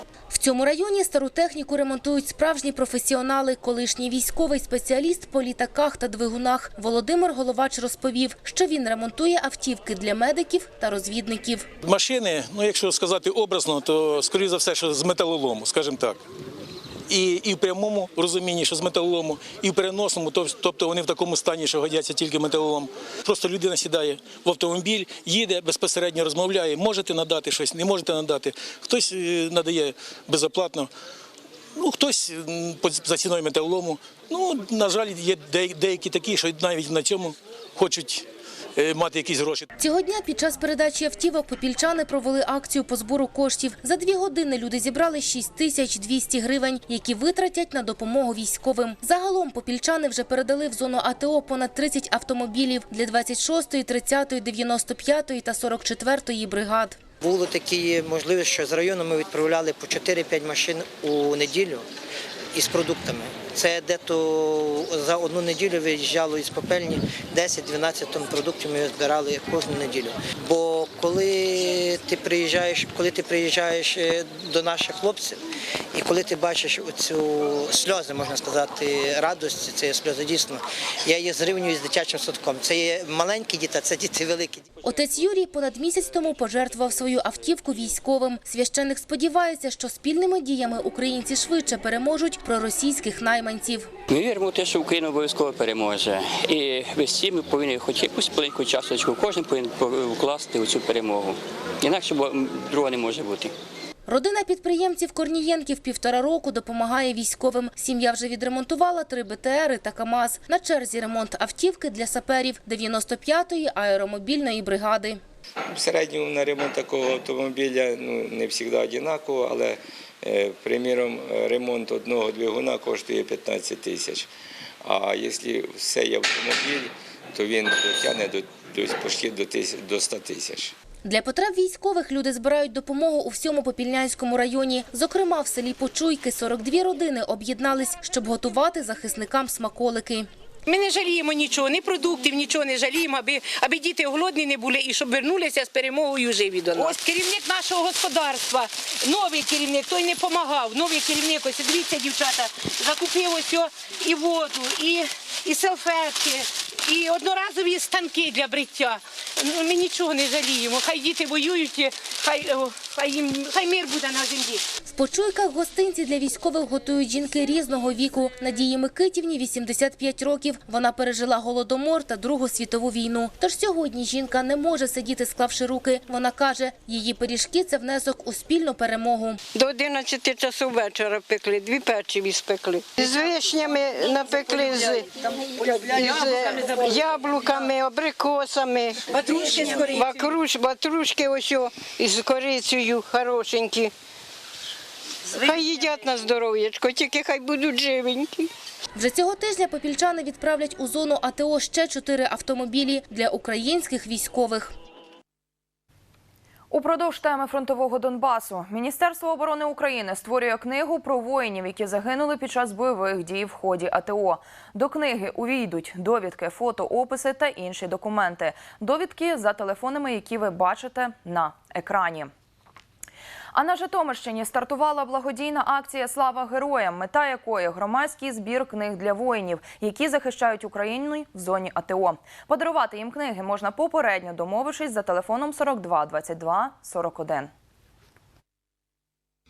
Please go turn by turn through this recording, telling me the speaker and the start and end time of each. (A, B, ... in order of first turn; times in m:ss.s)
0:00.3-0:11.6 A
0:11.8-0:16.2 B
0:17.1-0:30.9 B
0:31.8-0:38.2 B
0:38.8-0:39.7 B
0:39.8-0:57.0 A
0:57.2-1:01.8 C
1:02.5-1:15.4 C
1:15.9-1:24.6 C
1:24.8-1:33.9 A
1:34.1-1:43.5 D
1:44.0-1:55.2 A
1:55.7-2:04.3 E
2:04.8-2:10.7 E
2:11.0-2:20.3 A
2:20.7-2:44.6 F
2:44.8-2:59.4 A
2:59.5-3:13.9 G
3:15.3-3:18.5 G
3:18.9-3:24.7 A
3:26.7-3:42.3 H
3:43.5-3:57.5 H